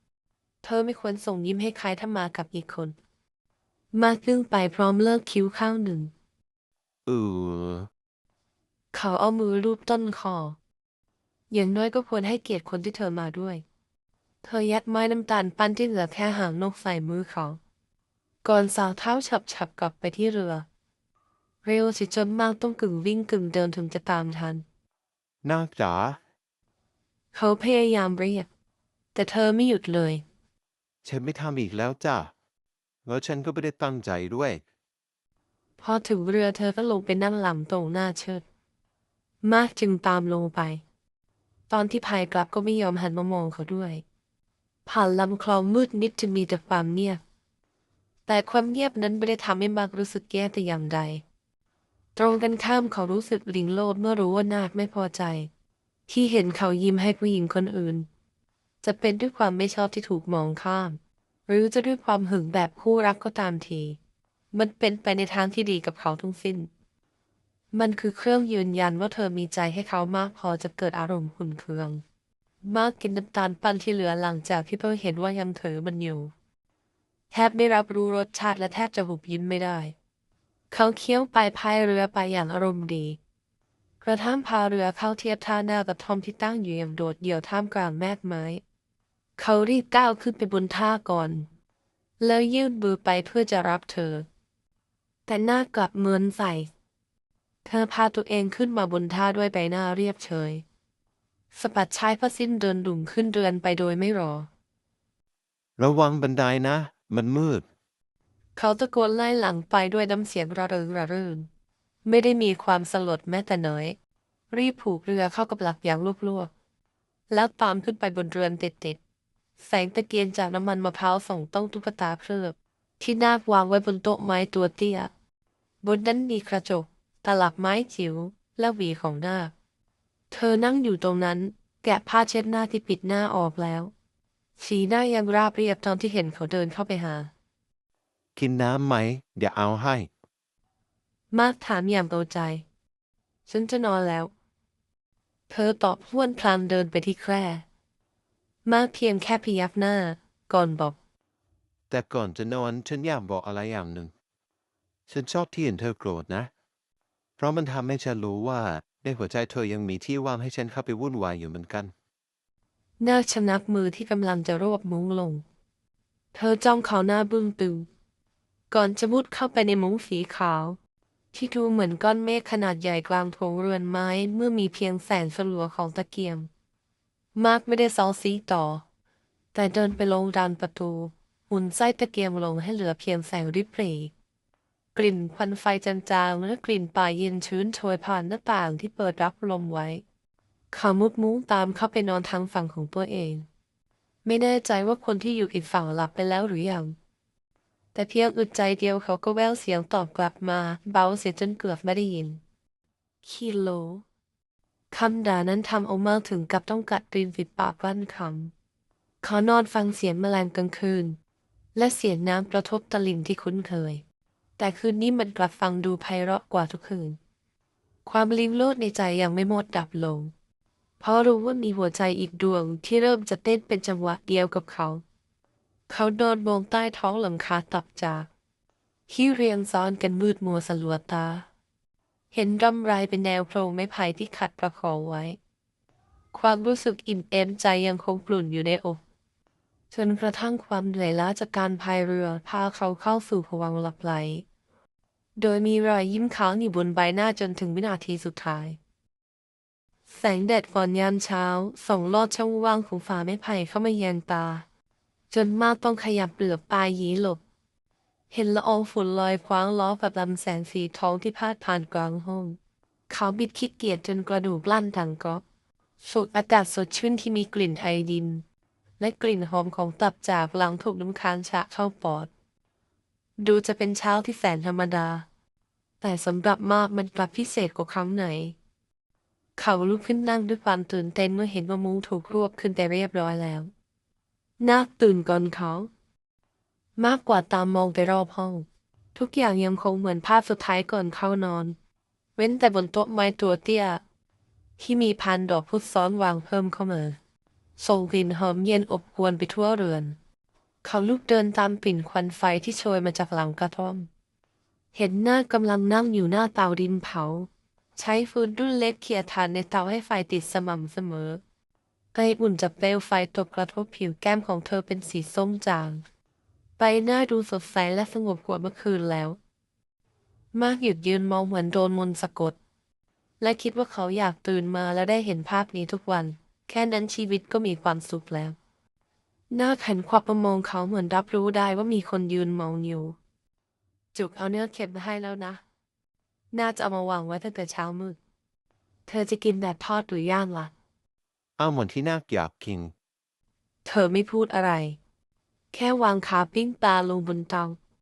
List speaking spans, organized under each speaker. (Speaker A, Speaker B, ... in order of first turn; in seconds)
Speaker A: 0.6-3.0, 3.9-6.1, 8.9-10.6, 11.5-13.6, 14.4-17.6, 18.4-20.7, 21.6-24.6, 27.3-28.5, 29.1-30.2, 35.8-38.4, 39.4-40.8, 41.7-44.0, 44.9-47.2, 48.3-51.2, 52.2-55.5, 56.1-58.1, 58.8-64.0, 64.5-66.7, 67.7-72.0, 72.6-76.3, 77.3-80.0, 80.7-83.2, 84.0-88.6, 89.4-91.5, 92.2-94.3, 95.3-96.7, 97.7-100.6, 101.5-104.5, 108.6-111.5, 112.0-114.0, 114.5-116.5, 117.3-119.0, 119.6-125.1, 125.8-129.5, 130.3-133.9, 134.6-137.3, 141.3-142.6, 143.5-144.3, 145.5-147.7, 148.7-151.0, 163.0-165.4, 166.3-167.9, 168.7-170.8, 171.3-176.5, 177.3-178.8, 179.5-184.1, 184.9-190.0, 190.7-193.5, 194.2-196.9, 197.9-202.4, 203.2-204.1, 204.9-208.5, 209.2-211.2, 211.8-214.0, 214.6-217.2, 218.1-220.3, 221.0-225.0, 225.9-228.3, 229.1-231.5, 232.3-235.4, 236.3-239.0, 239.9-244.4, 245.4-248.8, 250.1-254.6, 255.3-257.4, 258.3-262.6, 263.1-265.4, 266.0-268.4, 269.0-272.3, 273.4-275.3, 276.0-278.6, 279.6-283.7, 284.6-285.9, 287.0-291.8, 292.4-294.0, 294.8-297.2, 297.8-300.2, 300.8-304.1, 304.9-311.4, 312.1-316.1, 316.8-319.4, 320.6-322.6, 323.4-328.6, 329.5-333.2, 334.1-335.6, 336.5-338.2, 339.1-340.7, 343.9-345.0, 345.7-347.8
Speaker B: 7.1-7.9, 25.4-26.2, 31.0-32.3, 33.0-34.6, 105.8-107.7, 138.4-140.1, 151.9-154.1, 155.1-156.5, 157.4-161.9, 341.6-342.9